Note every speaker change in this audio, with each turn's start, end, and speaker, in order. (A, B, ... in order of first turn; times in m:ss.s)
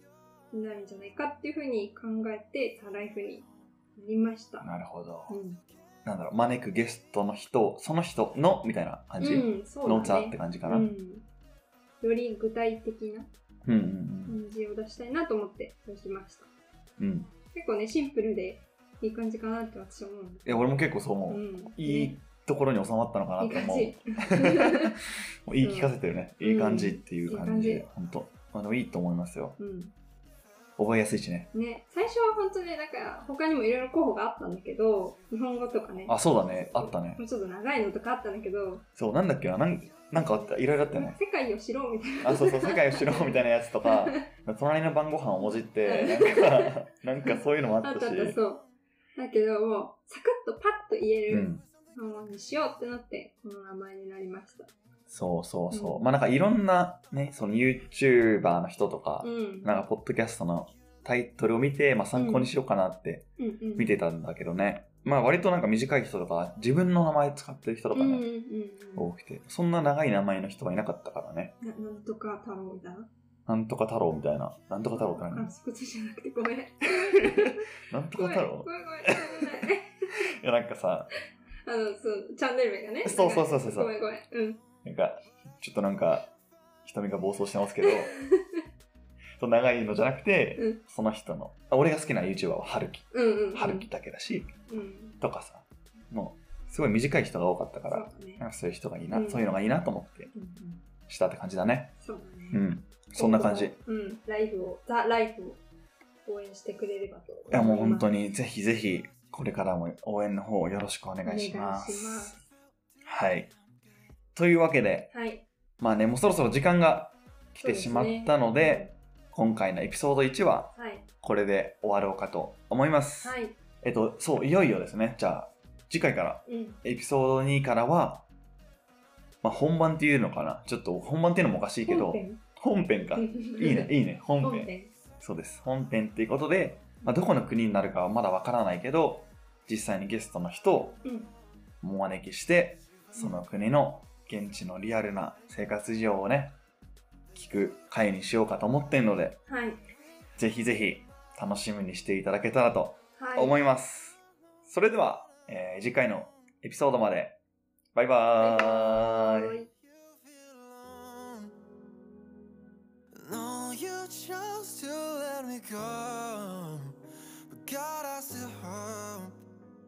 0:00.5-0:04.7 A
0:04.6-0:05.4 B
0:05.3-0:05.6 A
0:06.0-0:10.9 B
0:09.2-0:11.3 A
0:12.0-0:13.3 A
0:13.6-0:14.4 B
0:14.3-0:16.5 A
0:17.0-0:17.3 B
0:17.5-0:20.6 A
0:20.4-0:29.6 B
0:21.3-0:22.2 A
0:23.4-0:24.9 A
0:25.6-0:27.9 A
0:29.6-0:29.9 A
0:30.8-0:31.5 B
0:31.5-0:38.9 A
0:36.1-0:37.2 B
0:39.0-0:41.2 B
0:40.2-0:44.3 A
0:42.2-0:48.4 B
0:45.8-0:54.7 A
0:51.3-0:51.6 B
0:55.1-1:08.2 B
0:55.7-0:56.0 A
0:59.2-0:59.8 A
1:02.1-1:02.5 A
1:03.4-1:04.0 A
1:07.9-1:09.1 A
1:09.0-1:11.5 B
1:11.6-1:13.1 A
1:13.4-1:15.5 B
1:15.0-1:20.1 A
1:17.2-1:19.7 B
1:20.2-1:21.1 B
1:21.6-1:24.6 A
1:23.0-1:23.9 B
1:24.8-1:26.3 B
1:26.8-1:28.1 B
1:27.8-1:28.6 A
1:29.4-1:34.5 B
1:33.1-1:33.9 A
1:34.7-1:35.2 A
1:35.2-1:40.3 B
1:37.9-1:38.4 A
1:39.1-1:39.4 A
1:40.3-1:40.8 A
1:41.1-1:41.9 B
1:42.0-1:42.6 A
1:42.5-1:43.8 B
1:43.1-1:45.6 A
1:46.3-1:48.1 A
1:47.5-1:52.4 B
1:51.2-1:52.5 A
1:53.0-1:53.5 B
1:54.3-1:55.1 B
1:55.1-1:55.4 A
1:55.8-2:08.3 B
1:57.6-1:58.9 A
2:00.8-2:01.1 A
2:03.2-2:03.6 A
2:06.4-2:06.8 A
2:09.4-2:21.0 B
2:11.8-2:12.4 A
2:13.1-2:14.9 A
2:21.0-2:21.3 A
2:21.8-2:26.6 B
2:27.3-2:29.4 B
2:29.5-2:29.8 A
2:30.4-2:37.4 B
2:33.2-2:33.6 A
2:37.9-2:39.5 B
2:38.4-2:39.7 A
2:39.8-2:41.5 C
2:43.1-2:49.4 C